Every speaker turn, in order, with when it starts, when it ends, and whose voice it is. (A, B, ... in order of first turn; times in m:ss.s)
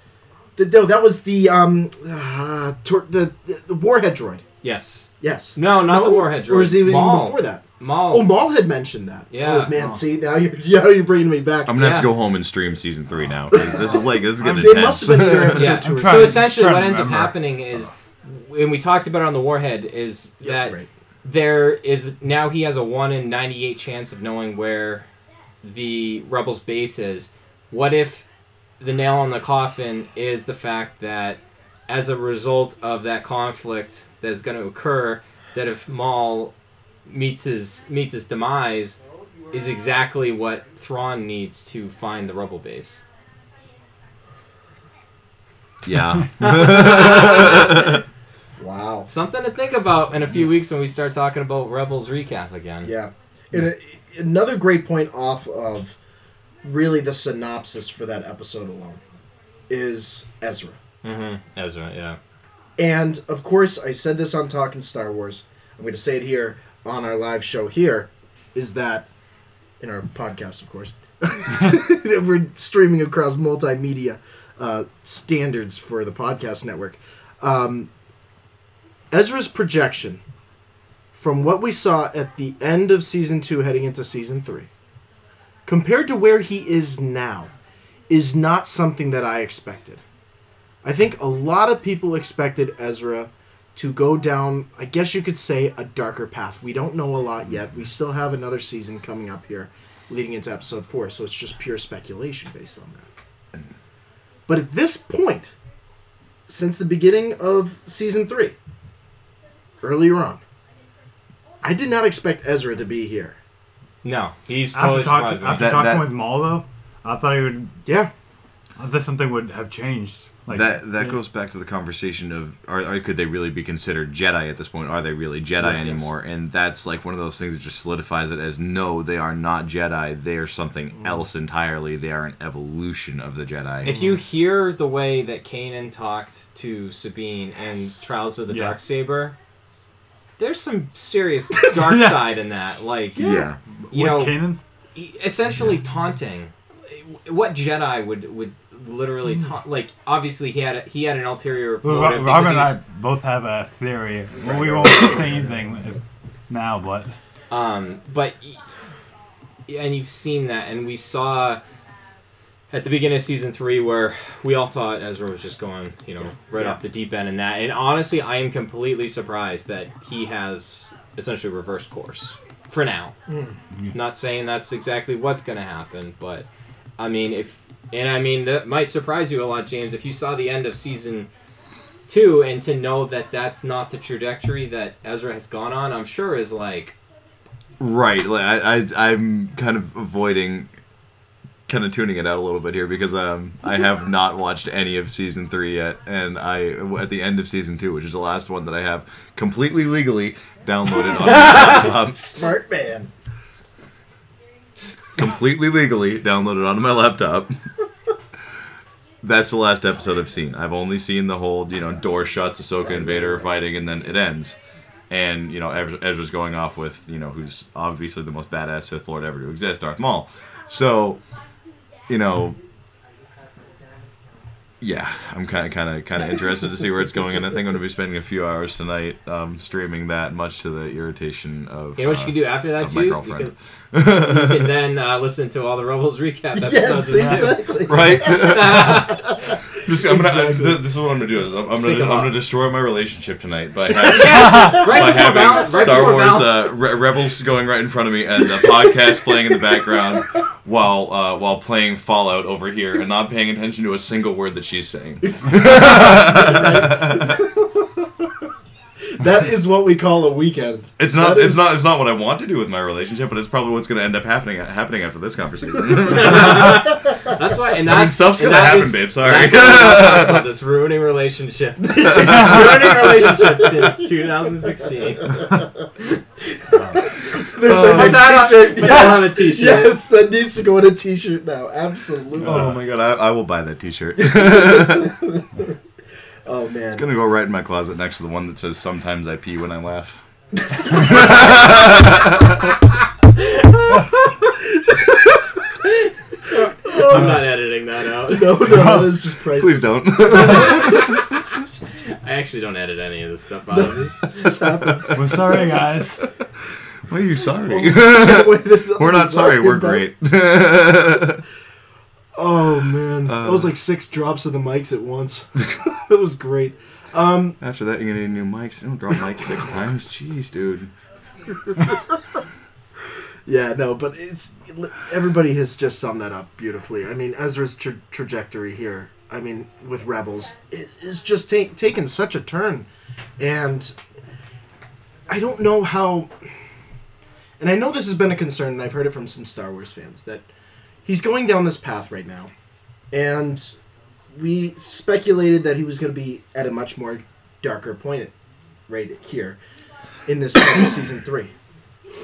0:00.6-0:04.4 A
0:04.6-0:08.3 B
0:05.2-0:11.8 A
0:09.3-0:09.7 B
0:11.6-0:15.7 C
0:11.7-0:12.1 B
0:13.5-0:16.6 A
0:15.5-0:25.1 B
0:15.6-0:17.4 D
0:20.4-0:20.9 A
0:25.6-0:28.2 B
0:28.8-0:36.5 B
0:37.0-0:43.0 B
0:45.8-0:47.6 C
0:46.5-0:47.6 B
0:48.6-0:49.1 A
0:49.0-0:52.9 B
0:52.8-0:56.0 A
0:56.6-0:59.0 A
0:59.7-1:00.8 A
1:01.0-1:02.2 B
1:02.8-1:09.1 A
1:09.8-1:17.9 A
1:19.1-1:20.2 A
1:21.1-1:24.7 A
1:25.6-1:27.5 A
1:28.1-1:30.0 A
1:30.8-1:43.1 A
1:44.5-1:45.5 A
1:46.5-1:48.6 A
1:49.8-1:50.4 A
1:51.6-1:53.4 A
1:54.0-1:55.8 B
1:54.7-1:57.8 D
1:55.5-1:56.1 C
1:57.8-1:58.1 A
1:58.8-2:00.8 D
2:00.5-2:13.9 C
2:13.8-2:19.3 B
2:18.5-2:18.8 D
2:20.4-2:23.3 B
2:21.7-2:22.2 D
2:23.1-2:23.5 A
2:23.2-2:23.6 C
2:23.7-2:24.6 D
2:23.9-2:32.8 B
2:31.8-2:37.2 D
2:34.6-2:35.2 C
2:34.6-2:35.1 A
2:37.5-2:38.6 B
2:39.7-2:41.6 B
2:42.7-2:53.1 B
2:53.3-2:53.6 A
2:53.9-2:56.4 B
2:57.0-3:01.3 B
3:02.1-3:07.0 B
3:07.8-3:10.7 C
3:11.7-3:22.4 C
3:21.7-3:23.1 A
3:25.2-3:27.5 C
3:29.2-3:34.6 C
3:32.8-3:33.5 A
3:35.1-3:41.2 C
3:42.1-3:42.6 C
3:44.8-3:54.7 C
3:52.0-3:53.5 B
3:54.1-3:59.3 B
3:56.6-3:59.0 A
3:57.8-4:17.3 C
4:00.0-4:00.8 B
4:00.1-4:00.5 A
4:01.7-4:02.3 B
4:04.0-4:06.7 B
4:04.6-4:05.0 A
4:08.6-4:09.4 A
4:15.3-4:18.4 A
4:19.1-4:21.7 A
4:21.0-4:27.1 C
4:26.0-4:35.4 B
4:27.8-4:30.5 C
4:32.0-4:32.7 A
4:32.0-4:33.4 C
4:35.2-4:35.8 A
4:36.5-4:42.8 A
4:37.6-4:38.4 C
4:37.6-4:39.9 B
4:42.4-4:45.1 C
4:42.4-4:42.7 D
4:44.2-4:45.8 A
4:46.4-4:47.0 A
4:46.9-4:52.7 C
4:50.7-4:51.6 A
4:54.7-4:55.5 A
4:56.5-4:58.7 B
4:56.5-4:57.4 A
4:58.2-5:01.1 A
4:58.7-4:59.1 D
4:59.5-5:01.2 C
5:00.4-5:01.2 B
5:02.0-5:04.2 B
5:03.7-5:05.9 A
5:04.4-5:05.4 C
5:05.1-5:06.2 D
5:07.0-5:11.4 C
5:07.4-5:10.0 A
5:12.3-5:17.6 A
5:13.3-5:13.7 C
5:17.6-5:20.9 C
5:21.6-5:22.4 A
5:23.4-5:32.9 A
5:33.4-5:34.0 A
5:35.3-5:36.6 A
5:37.6-5:40.5 A
5:41.0-5:42.5 A
5:43.1-5:43.7 A
5:44.3-5:48.3 A
5:48.9-5:49.6 A
5:50.2-5:51.5 A